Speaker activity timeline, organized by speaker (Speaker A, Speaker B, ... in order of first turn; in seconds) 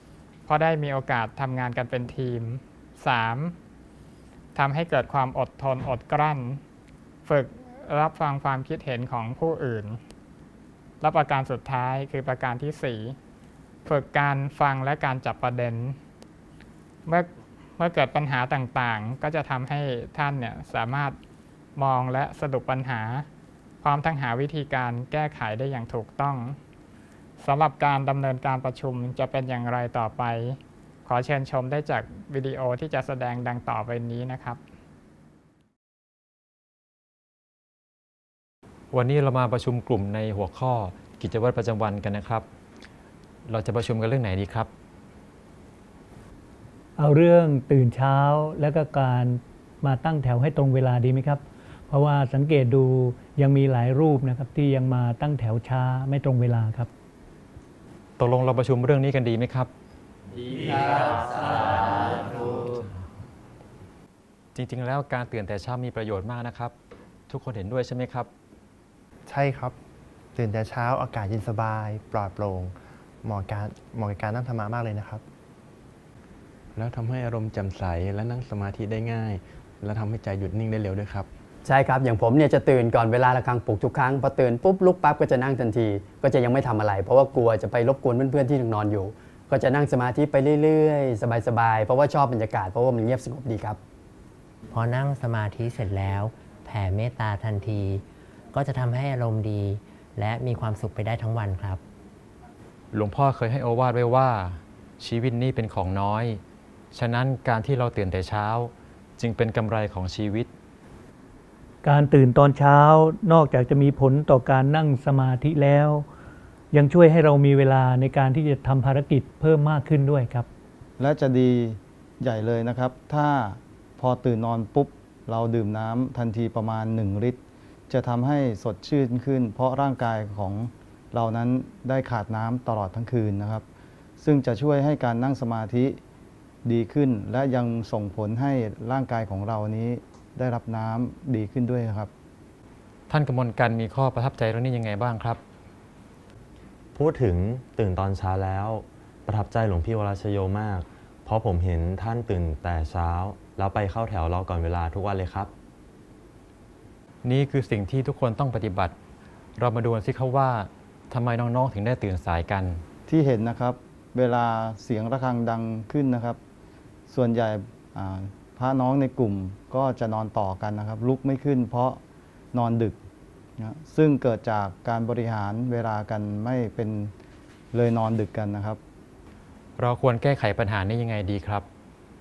Speaker A: 0.5-3.6, 4.5-6.6, 7.3-10.0, 11.0-13.2, 13.8-16.0, 17.1-21.2, 21.8-23.3, 23.8-26.6, 27.4-34.6
Speaker B: 38.9-42.5, 43.5-44.7, 58.2-59.7, 64.5-66.7, 67.3-68.3, 102.9-106.4, 106.9-110.5, 143.1-145.4, 157.2-158.9, 159.6-162.8, 179.8-181.7
Speaker C: 47.0-56.9, 111.8-116.1, 116.7-120.5
Speaker D: 69.3-69.8, 70.3-75.2
Speaker E: 76.8-81.3
Speaker F: 81.7-93.8
Speaker G: 94.7-101.8
Speaker H: 121.0-127.4, 127.9-133.6, 134.2-136.0, 136.7-142.1, 163.1-166.4, 167.1-172.0, 172.5-173.0, 173.6-177.1, 177.7-178.8
Speaker I: 146.9-155.5